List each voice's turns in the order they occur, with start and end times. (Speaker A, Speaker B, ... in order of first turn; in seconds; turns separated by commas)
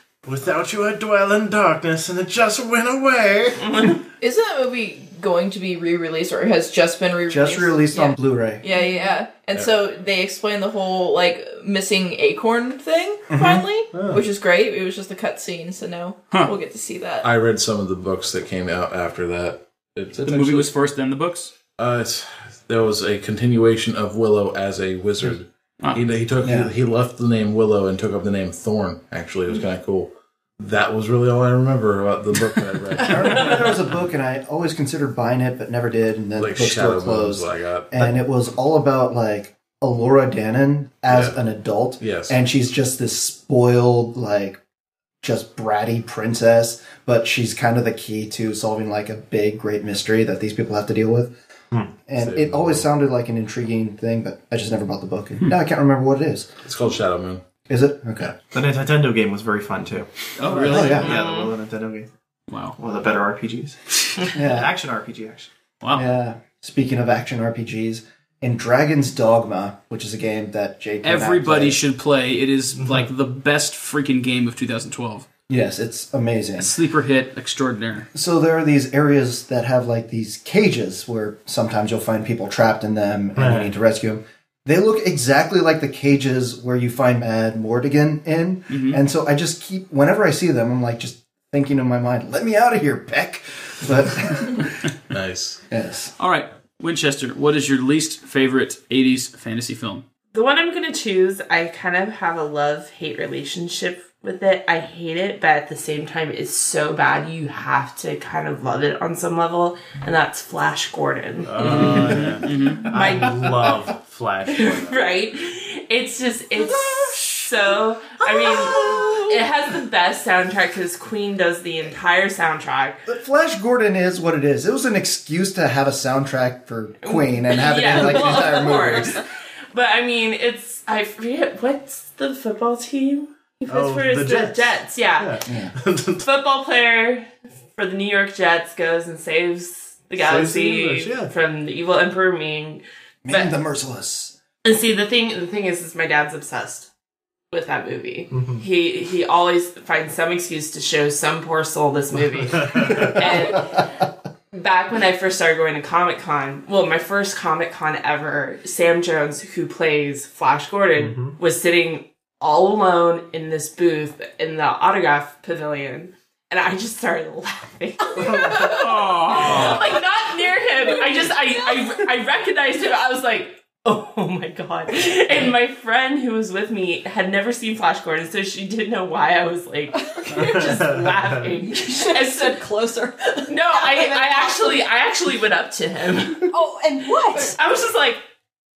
Speaker A: 0.2-3.7, Speaker B: 3.6-4.0, Speaker C: 4.2-17.3, Speaker D: 7.3-8.6, Speaker D: 13.3-13.6, Speaker A: 13.9-14.2, Speaker E: 17.2-20.7, Speaker F: 20.2-21.5, Speaker E: 21.8-33.7, Speaker D: 26.4-26.7, Speaker D: 33.0-44.6, Speaker E: 36.4-38.2, Speaker E: 41.1-41.4, Speaker E: 42.0-42.4, Speaker D: 45.2-51.4, Speaker D: 52.1-56.5, Speaker E: 52.2-52.9, Speaker E: 56.6-57.4, Speaker D: 57.7-58.4, Speaker G: 58.4-62.1, Speaker F: 60.4-61.1, Speaker D: 60.5-61.2, Speaker B: 61.0-61.5, Speaker F: 62.5-62.8, Speaker G: 62.8-63.8, Speaker D: 64.3-64.7, Speaker G: 64.4-65.5, Speaker D: 65.9-71.8, Speaker F: 71.0-75.3, Speaker D: 75.5-76.8, Speaker F: 76.6-78.1, Speaker D: 78.1-94.8, Speaker A: 83.4-83.7, Speaker F: 88.7-89.0, Speaker E: 95.1-95.6, Speaker D: 95.7-96.1, Speaker F: 96.2-100.0, Speaker B: 100.3-112.3, Speaker A: 111.4-115.0, Speaker F: 111.6-112.9, Speaker B: 112.8-113.8, Speaker B: 114.5-123.0, Speaker D: 118.2-119.2, Speaker D: 123.1-129.2, Speaker B: 127.0-135.4, Speaker A: 133.7-136.3, Speaker D: 135.5-135.7, Speaker B: 136.2-143.6, Speaker A: 140.2-141.3, Speaker D: 143.3-144.3, Speaker B: 144.6-146.9, Speaker B: 147.5-153.9, Speaker A: 148.3-148.6, Speaker A: 152.4-153.2, Speaker D: 152.9-153.9, Speaker B: 154.5-182.6, Speaker A: 161.0-161.4, Speaker A: 168.2-169.8, Speaker F: 168.7-169.8, Speaker H: 170.8-171.9, Speaker H: 179.9-180.9, Speaker A: 180.4-181.4, Speaker H: 181.6-184.9, Speaker B: 183.5-186.5, Speaker H: 186.5-187.6, Speaker B: 187.3-188.2